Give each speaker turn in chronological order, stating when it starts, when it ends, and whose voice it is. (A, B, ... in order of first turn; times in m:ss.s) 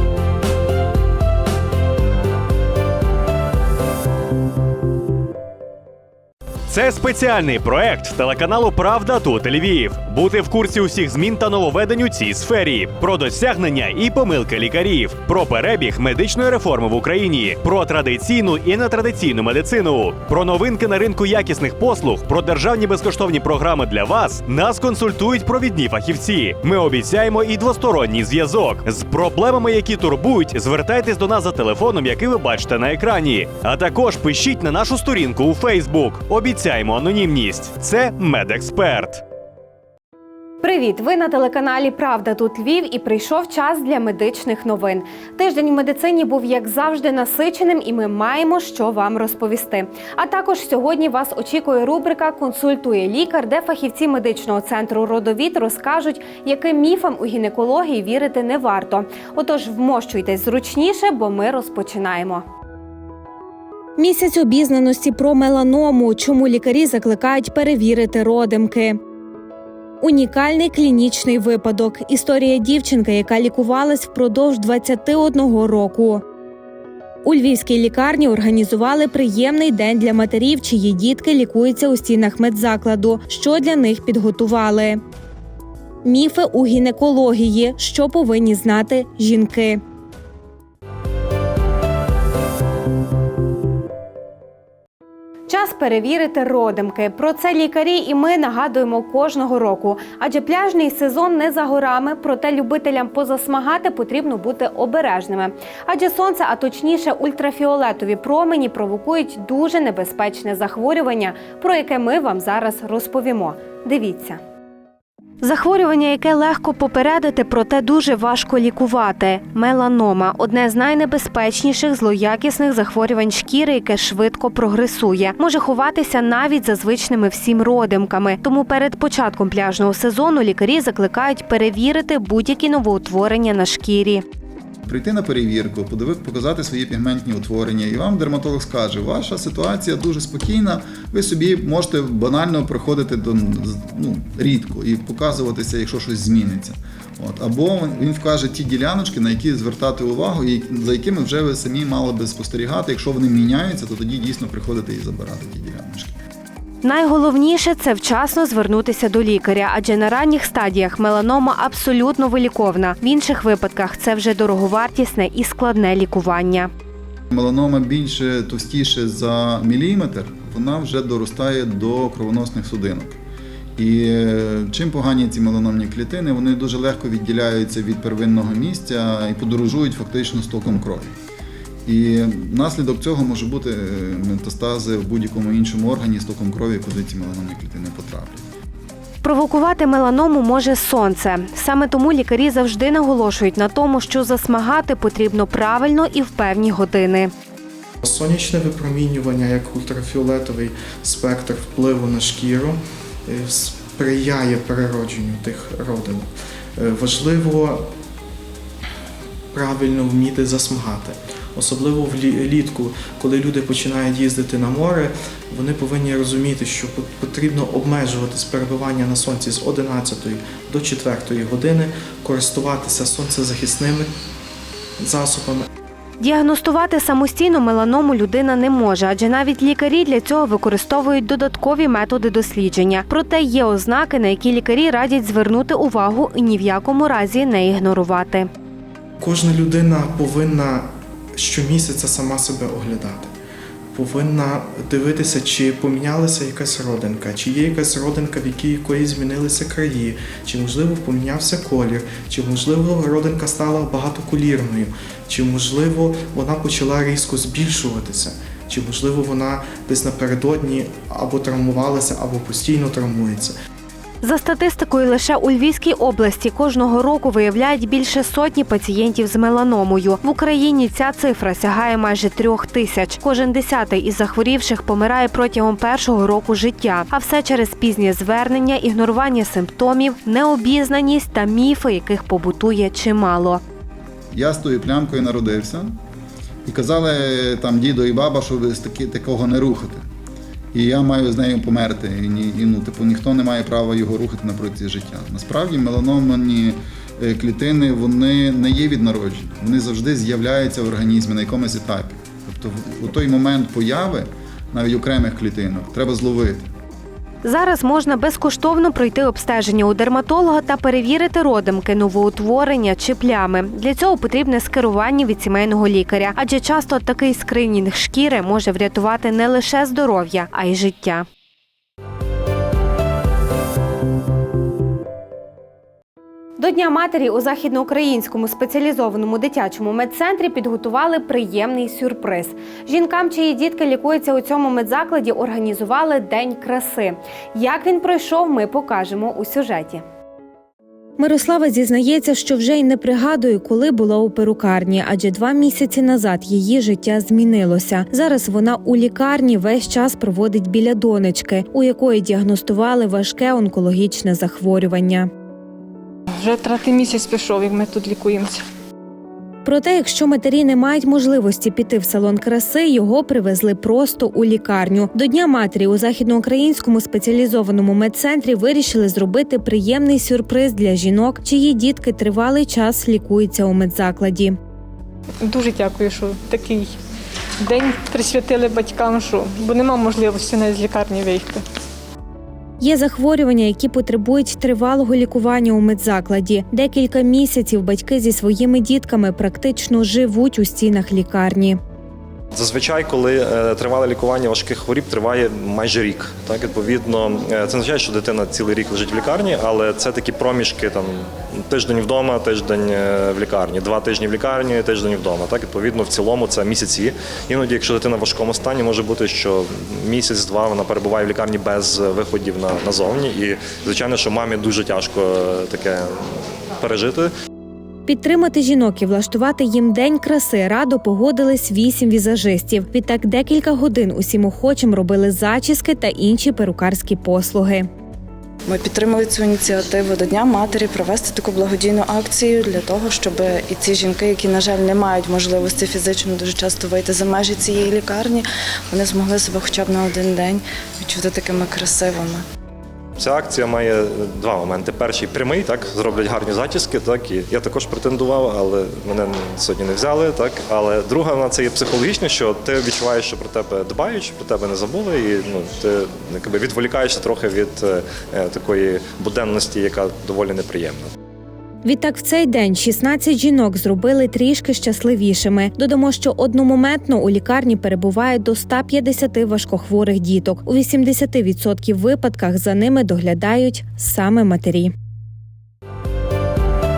0:06.7-0:39.2 A
0:40.6-1:02.4 B
1:04.0-1:09.0 B
1:10.0-1:16.2 B
1:17.2-1:25.0 B
1:26.0-1:29.8 B
1:35.5-1:54.4 B
1:55.4-2:14.2 B
2:14.8-2:36.2 C
2:36.8-2:46.7 B
2:47.3-2:53.2 C
2:53.8-3:01.2 C
3:01.8-3:08.5 C
3:09.2-3:17.3 B
3:18.0-3:27.9 D
3:29.5-3:44.1 D
3:45.0-3:45.7 D
3:46.2-3:58.5 B
3:59.2-4:03.3 D
4:03.9-4:23.5 D
4:24.2-4:43.6 B
4:44.3-4:46.0 C
4:46.6-4:50.1 C
4:50.7-5:06.7 C
5:07.4-5:21.3 B
5:26.6-5:40.0 B
5:41.2-5:55.3 B
5:56.4-5:58.6 E
5:59.6-6:14.6 B
6:15.4-6:16.9 E
6:17.6-6:21.6 E
6:22.8-6:31.8 B
6:32.5-6:57.3 F
6:58.1-7:07.9 B
7:08.7-7:22.4 G
7:23.2-7:41.1 F
7:41.8-7:54.9 B